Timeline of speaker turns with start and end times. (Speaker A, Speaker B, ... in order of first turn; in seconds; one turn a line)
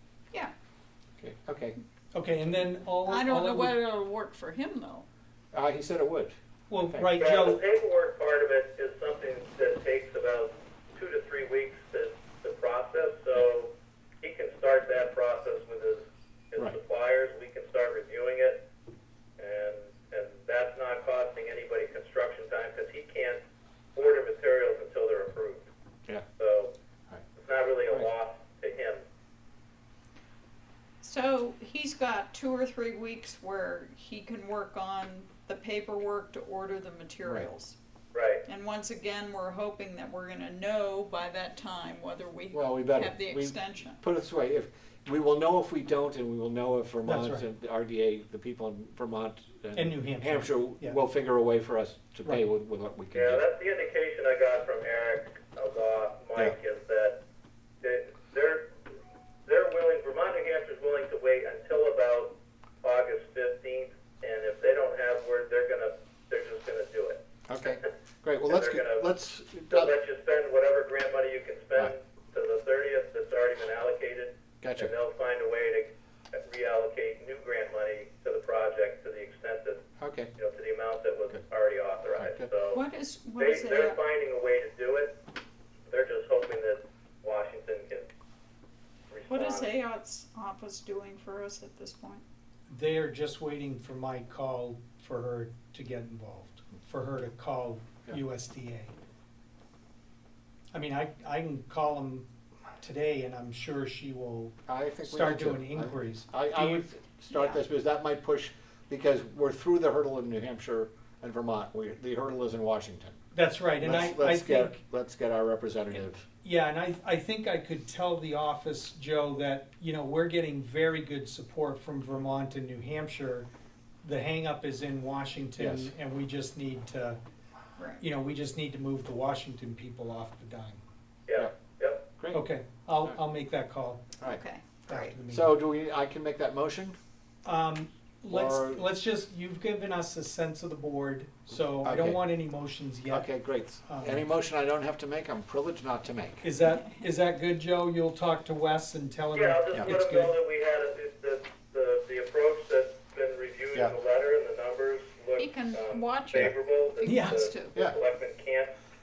Speaker A: 1.2-1.8
Speaker B: 2.1-3.7
Speaker C: 3.0-5.1
Speaker A: 5.5-7.1
Speaker B: 6.7-7.6
Speaker D: 7.2-18.6
Speaker D: 19.4-23.4
Speaker D: 23.9-25.7
Speaker D: 26.4-26.7
Speaker D: 27.4-29.0
Speaker C: 31.0-37.8
Speaker D: 38.1-38.5
Speaker C: 38.5-44.0
Speaker A: 42.5-53.4
Speaker B: 47.0-47.4
Speaker B: 49.8-51.0
Speaker D: 53.1-57.2
Speaker D: 57.8-58.7
Speaker D: 59.5-67.8
Speaker A: 67.5-70.0
Speaker D: 68.5-69.1
Speaker D: 69.7-79.8
Speaker A: 74.6-74.9
Speaker A: 80.0-80.3
Speaker D: 80.4-82.8
Speaker A: 82.2-82.5
Speaker C: 82.7-84.0
Speaker D: 83.4-85.2
Speaker D: 85.9-88.1
Speaker D: 89.1-89.7
Speaker C: 89.3-92.2
Speaker B: 92.7-98.9
Speaker B: 100.7-102.3
Speaker B: 102.8-106.8
Speaker A: 104.7-113.2
Speaker C: 107.3-107.6
Speaker B: 113.3-114.8
Speaker A: 113.8-116.2
Speaker B: 116.4-123.5
Speaker B: 124.0-127.2
Speaker A: 125.6-125.9
Speaker C: 127.8-128.0
Speaker B: 128.0-130.8
Speaker D: 131.3-132.1
Speaker A: 132.2-132.4
Speaker B: 132.3-134.1
Speaker C: 134.2-135.2
Speaker B: 134.9-135.5
Speaker A: 135.3-137.0
Speaker B: 137.4-144.2
Speaker A: 138.3-138.8
Speaker A: 141.8-142.2
Speaker A: 143.1-146.5
Speaker B: 146.4-150.3
Speaker D: 149.3-158.7
Speaker C: 155.4-157.8
Speaker B: 157.1-157.3